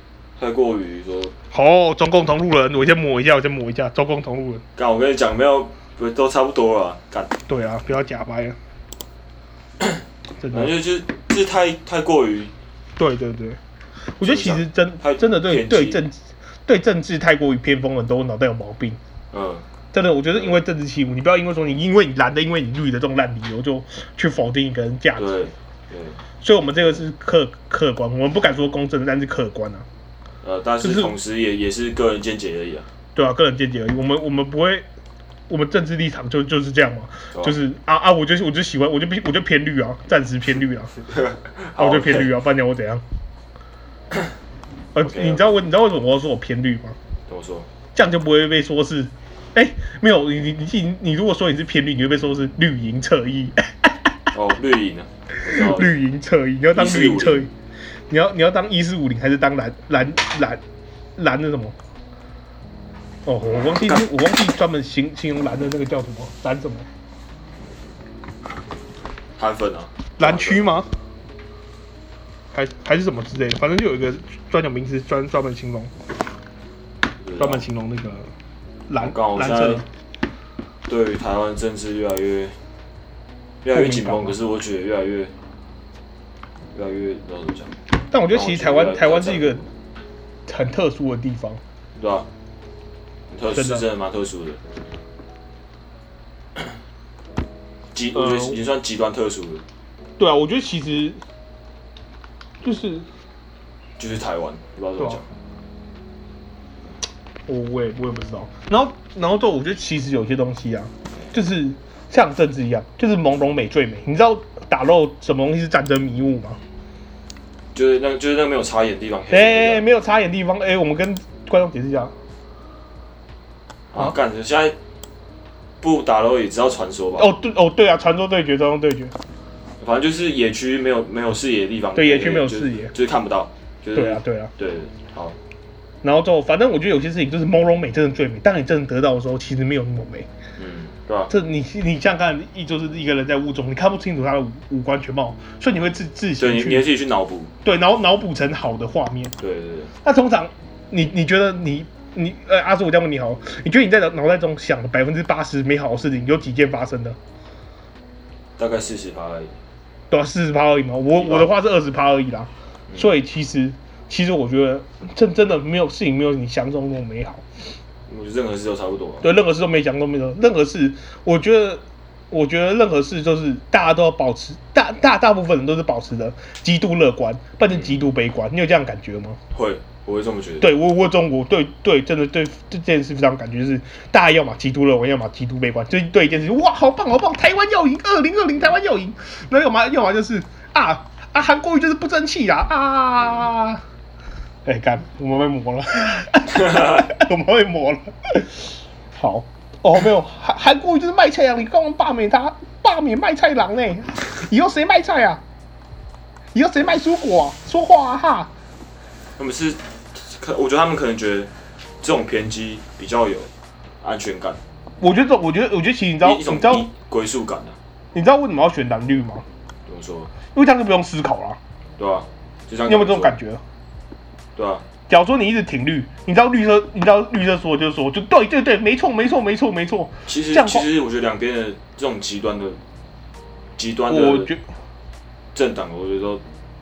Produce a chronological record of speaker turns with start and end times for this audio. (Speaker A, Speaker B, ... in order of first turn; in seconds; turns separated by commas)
Speaker A: 0.4-1.3, Speaker B: 1.5-4.6, Speaker A: 4.8-7.3, Speaker B: 7.5-8.6, Speaker B: 10.4-10.7, Speaker A: 10.5-12.5, Speaker B: 13.0-13.6, Speaker B: 14.2-19.0, Speaker A: 14.2-16.0, Speaker A: 19.3-19.6, Speaker B: 19.9-25.4, Speaker A: 20.3-20.6, Speaker A: 25.2-26.2, Speaker B: 26.4-29.9, Speaker A: 30.4-32.9, Speaker B: 30.8-31.1, Speaker B: 33.1-34.9, Speaker B: 35.5-40.9, Speaker A: 41.1-42.3, Speaker B: 41.8-43.0, Speaker B: 45.0-47.0, Speaker A: 45.0-45.5, Speaker A: 47.3-47.7, Speaker B: 48.0-54.1, Speaker A: 54.3-56.0, Speaker B: 55.4-57.5, Speaker A: 56.7-57.5, Speaker B: 58.1-60.6, Speaker B: 61.2-61.8, Speaker B: 63.3-66.9, Speaker A: 63.5-64.0, Speaker A: 69.4-70.7, Speaker B: 70.2-70.9, Speaker B: 72.5-75.9, Speaker A: 77.2-77.6, Speaker B: 77.4-78.3, Speaker B: 78.9-79.9, Speaker A: 79.0-79.8, Speaker A: 80.9-82.5, Speaker A: 83.6-85.3, Speaker B: 83.7-84.4, Speaker A: 86.7-87.7, Speaker B: 88.1-89.6, Speaker A: 88.3-89.6, Speaker B: 90.5-91.6, Speaker A: 92.0-92.3, Speaker A: 93.3-94.6, Speaker B: 93.5-93.8, Speaker A: 97.9-99.6, Speaker B: 98.1-98.6, Speaker B: 100.2-101.2, Speaker B: 102.6-103.1, Speaker A: 104.0-105.3, Speaker B: 107.5-116.6, Speaker A: 117.7-119.8, Speaker B: 119.3-122.1, Speaker A: 123.9-124.8, Speaker A: 125.8-127.3, Speaker B: 127.2-129.1, Speaker A: 129.8-135.4, Speaker B: 131.9-132.9, Speaker B: 133.9-134.5, Speaker B: 136.0-140.3, Speaker A: 140.6-141.3, Speaker B: 141.3-146.9, Speaker A: 146.4-147.5, Speaker B: 147.6-149.3, Speaker A: 149.4-149.9, Speaker B: 150.0-157.2, Speaker A: 158.6-159.5, Speaker B: 160.1-167.4, Speaker A: 161.2-161.5, Speaker A: 168.1-169.3, Speaker B: 169.2-179.4, Speaker A: 179.5-180.7, Speaker B: 180.6-193.8, Speaker B: 194.7-205.4, Speaker B: 206.5-208.5, Speaker A: 209.4-211.5, Speaker A: 212.0-213.5, Speaker A: 214.0-214.6, Speaker B: 215.0-216.9, Speaker A: 216.2-217.8, Speaker B: 218.1-219.4, Speaker A: 219.9-220.3, Speaker B: 220.5-221.6, Speaker A: 222.0-223.3, Speaker B: 222.9-223.6, Speaker A: 224.6-224.8, Speaker B: 225.1-230.9, Speaker A: 230.3-232.8, Speaker A: 233.8-234.5, Speaker B: 234.1-234.6, Speaker A: 235.5-236.4